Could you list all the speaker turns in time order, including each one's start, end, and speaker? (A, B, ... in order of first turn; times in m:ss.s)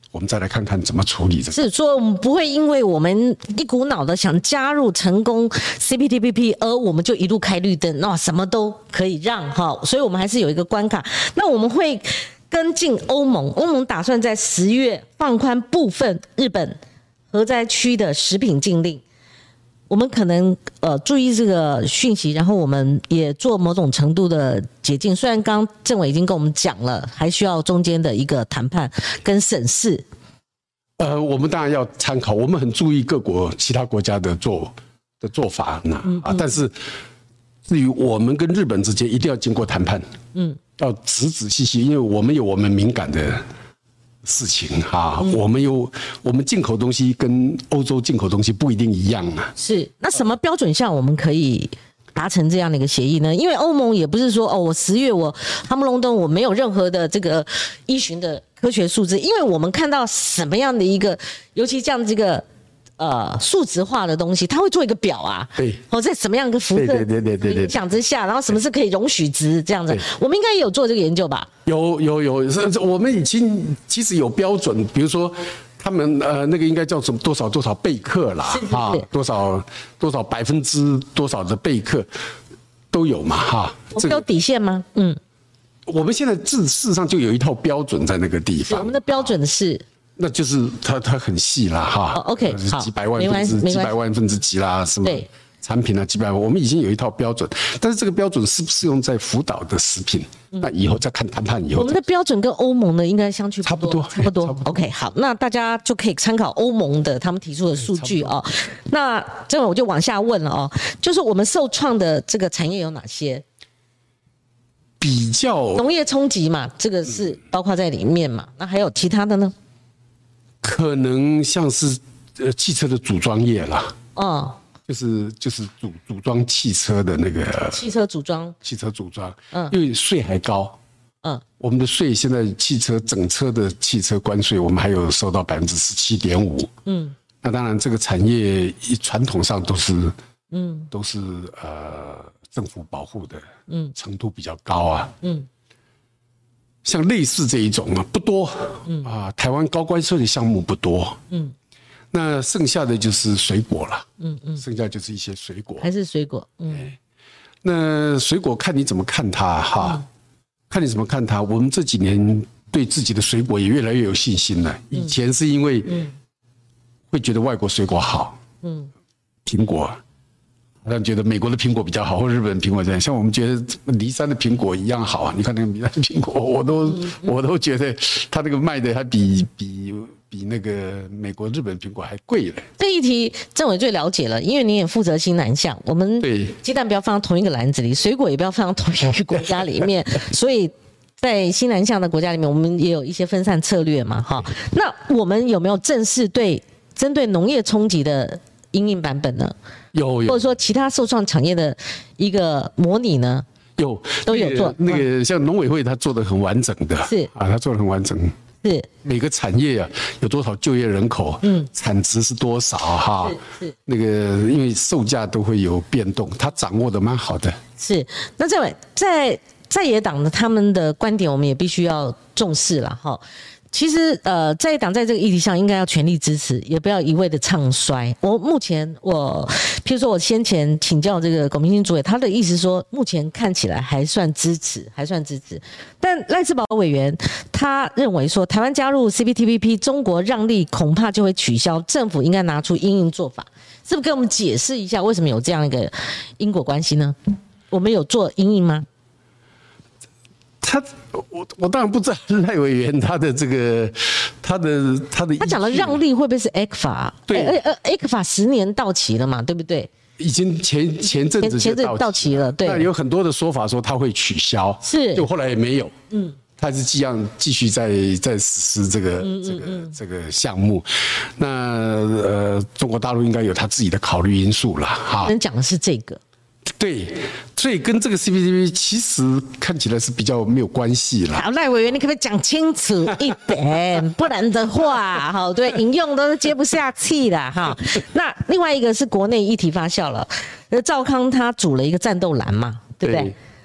0:00.1-0:01.6 A
0:01.5-0:16.8 B
0:17.3-0:19.0 B
0:19.9-0:30.0 B
0:31.0-0:36.8 A
0:36.0-0:36.5 B
0:37.6-0:40.0 A
0:40.3-0:40.6 B
0:40.8-0:43.4 A
0:44.2-0:49.5 A
0:49.6-1:02.4 B
1:03.0-1:11.5 B
1:06.7-1:07.8 A
1:11.6-1:22.1 A
1:18.5-1:19.1 B
1:22.9-1:24.2 A
1:23.9-1:25.2 B
1:25.9-1:29.4 A
1:28.6-1:29.8 B
1:30.2-1:42.0 A
1:32.1-1:34.0 B
1:41.8-1:53.4 B
1:43.6-1:44.8 A
1:47.8-1:48.4 A
1:55.0-1:55.8 A
1:55.8-1:59.5 B
2:00.6-2:04.0 A
2:04.1-2:04.6 B
2:04.9-2:07.8 A
2:07.7-2:08.6 B
2:08.6-2:10.8 A
2:11.6-2:16.7 A
2:16.9-2:17.2 B
2:17.4-2:20.1 A
2:20.5-2:20.9 B
2:20.9-2:25.1 A
2:23.7-2:23.9 B
2:25.2-2:25.5 B
2:26.8-2:31.2 A
2:32.1-2:35.9 A
2:34.2-2:34.6 B
2:35.8-2:36.9 B
2:37.6-2:40.0 A
2:40.7-2:46.1 A
2:45.9-2:46.1 B
2:47.1-2:48.4 A
2:48.6-2:48.9 B
2:49.5-2:50.0 A
2:50.8-3:02.7 A
3:02.8-3:19.5 B
3:06.2-3:06.6 A
3:19.9-3:20.5 A
3:20.3-3:23.4 B
3:23.8-3:28.4 A
3:24.3-3:25.1 B
3:27.0-3:27.3 B
3:28.6-3:28.9 B
3:29.0-3:37.6 A
3:31.4-3:31.7 B
3:33.2-3:33.7 B
3:37.8-4:07.2 B
4:07.7-4:08.9 B
4:10.6-4:16.0 A
4:15.4-4:19.9 B
4:17.3-4:17.6 A
4:20.2-4:25.9 A
4:21.4-4:22.9 B
4:24.8-4:25.3 B
4:26.1-4:26.4 B
4:26.6-4:35.3 A
4:29.2-4:29.9 B
4:35.2-4:36.2 B
4:36.7-4:41.4 A
4:41.3-4:53.4 B
4:53.0-4:53.3 A